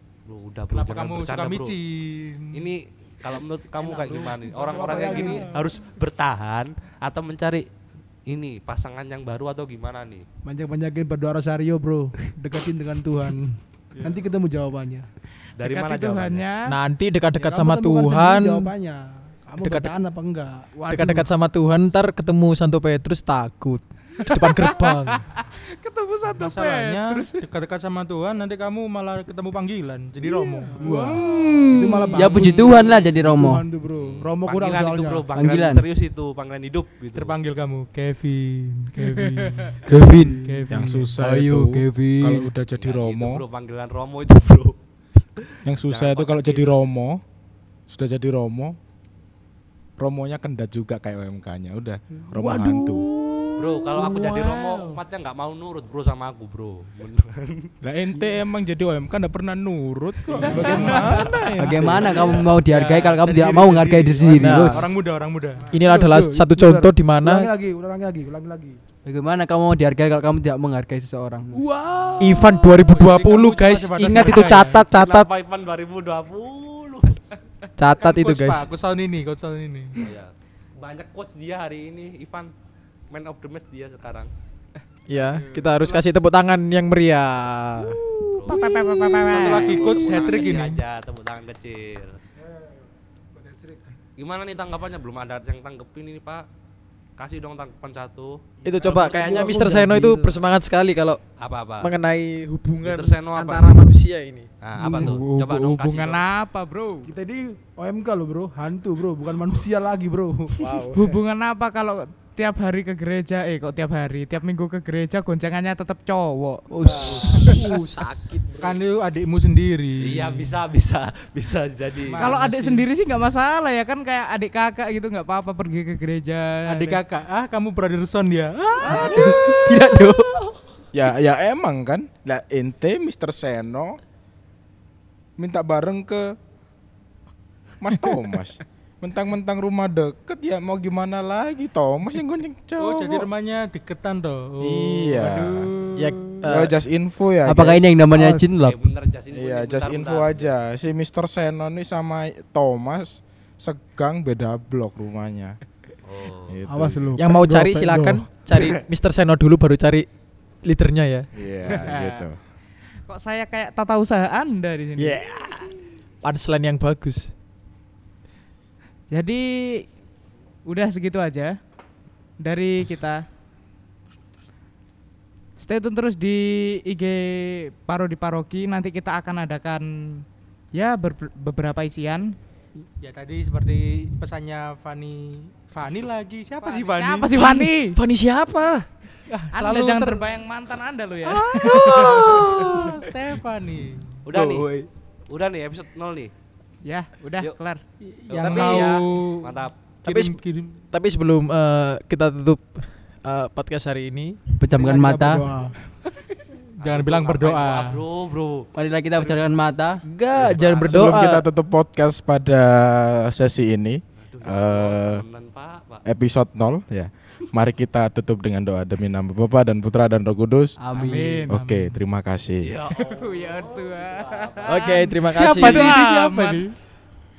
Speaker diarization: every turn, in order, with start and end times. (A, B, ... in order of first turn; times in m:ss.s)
0:00.3-0:01.8 A
0:00.7-0:02.7 B
0:02.5-0:07.7 A
0:03.8-0:05.5 C
0:08.3-0:10.2 A
0:10.4-0:15.1 C
0:15.6-0:16.5 A
0:15.6-0:16.7 D
0:16.7-0:18.7 E
0:17.4-0:20.7 C
0:19.6-0:20.0 E
0:20.8-0:21.2 D
0:20.9-0:25.2 E
0:24.2-0:27.4 D
0:26.3-0:31.2 B
0:30.2-0:35.3 C
0:31.3-0:33.6 F
0:32.2-0:33.0 A
0:34.0-0:37.4 A
0:35.3-0:35.8 F
0:37.2-0:39.9 B
0:39.9-0:40.4 F
0:40.4-0:41.2 B
0:40.7-0:43.4 G
0:41.2-0:42.5 F
0:42.7-0:44.8 A
0:45.4-0:46.9 A
0:45.7-0:47.2 G
0:47.9-0:48.8 G
0:50.0-0:53.1 G
0:53.6-0:57.7 A
0:57.8-1:02.6 G
1:00.3-1:01.2 C
1:00.7-1:01.2 B
1:01.6-1:04.8 F
1:02.6-1:05.6 B
1:04.4-1:04.9 E
1:05.7-1:08.8 C
1:05.7-1:07.5 E
1:09.1-1:11.6 F
1:11.5-1:14.8 B
1:12.2-1:15.3 E
1:14.2-1:17.2 A
1:17.8-1:18.7 E
1:18.0-1:20.0 B
1:20.0-1:22.5 A
1:23.1-1:24.3 A
1:25.1-1:28.0 E
1:28.3-1:28.7 A
1:28.4-1:30.3 D
1:29.1-1:30.8 B
1:29.2-1:32.2 A
1:32.4-1:32.7 C
1:33.4-1:33.8 C
1:34.2-1:36.5 A
1:37.2-1:38.4 A
1:38.6-1:39.9 C
1:38.6-1:41.2 E
1:38.9-1:39.2 A
1:41.4-1:41.9 A
1:41.8-1:44.5 E
1:42.8-1:43.9 A
1:44.6-1:46.2 A
1:44.8-1:45.2 C
1:44.9-1:47.1 D
1:47.0-1:50.9 C
1:50.5-1:51.1 E
1:50.9-1:57.6 D
1:56.7-1:57.5 F
1:56.8-1:58.8 E
1:58.6-2:00.6 B
2:00.0-2:02.3 A
2:02.0-2:02.9 B
2:02.2-2:07.0 D
2:06.7-2:09.3 B
2:09.5-2:10.3 F
2:10.9-2:14.0 G
2:15.4-2:16.4 G
2:17.8-2:23.3 G
2:22.8-2:25.2 B
2:24.6-2:25.7 G
2:25.2-2:26.0 D
2:26.0-2:26.8 E
2:26.5-2:28.1 G
2:27.5-2:28.8 F
2:28.1-2:28.5 C
2:28.6-2:30.6 A
2:29.3-2:35.6 G
2:36.0-2:36.6 A
2:36.5-2:37.1 G
2:36.7-2:38.2 C
2:37.2-2:40.1 E
2:40.7-2:41.3 E
2:41.4-2:42.4 G
2:41.7-2:42.3 D
2:43.1-2:45.2 D
2:45.0-2:45.7 E
2:46.2-2:47.3 E
2:49.1-2:49.8 D
2:50.7-2:51.6 D
2:52.4-2:53.2 D
2:55.6-3:02.4 D
3:03.0-3:07.7 B
3:06.6-3:08.0 D
3:08.2-3:08.5 F
3:09.3-3:10.3 B
3:09.5-3:12.8 D
3:11.3-3:14.3 B
3:14.2-3:14.7 A
3:14.4-3:14.8 F
3:15.3-3:16.3 A
3:16.8-3:17.8 D
3:18.0-3:20.8 B
3:18.3-3:19.7 A
3:20.0-3:20.4 E
3:20.9-3:24.4 E
3:24.6-3:25.4 F
3:24.7-3:25.8 C
3:26.8-3:28.7 A
3:26.8-3:28.0 B
3:28.8-3:30.0 F
3:30.1-3:31.5 E
3:30.3-3:31.1 A
3:30.8-3:35.2 G
3:34.3-3:36.0 A
3:36.1-3:40.8 G
3:40.8-3:41.4 F
3:40.9-3:42.0 B
3:41.0-3:41.5 D
3:41.4-3:42.7 G
3:42.6-3:45.0 A
3:43.0-3:46.6 D
3:44.7-3:45.9 E
3:45.3-3:46.8 B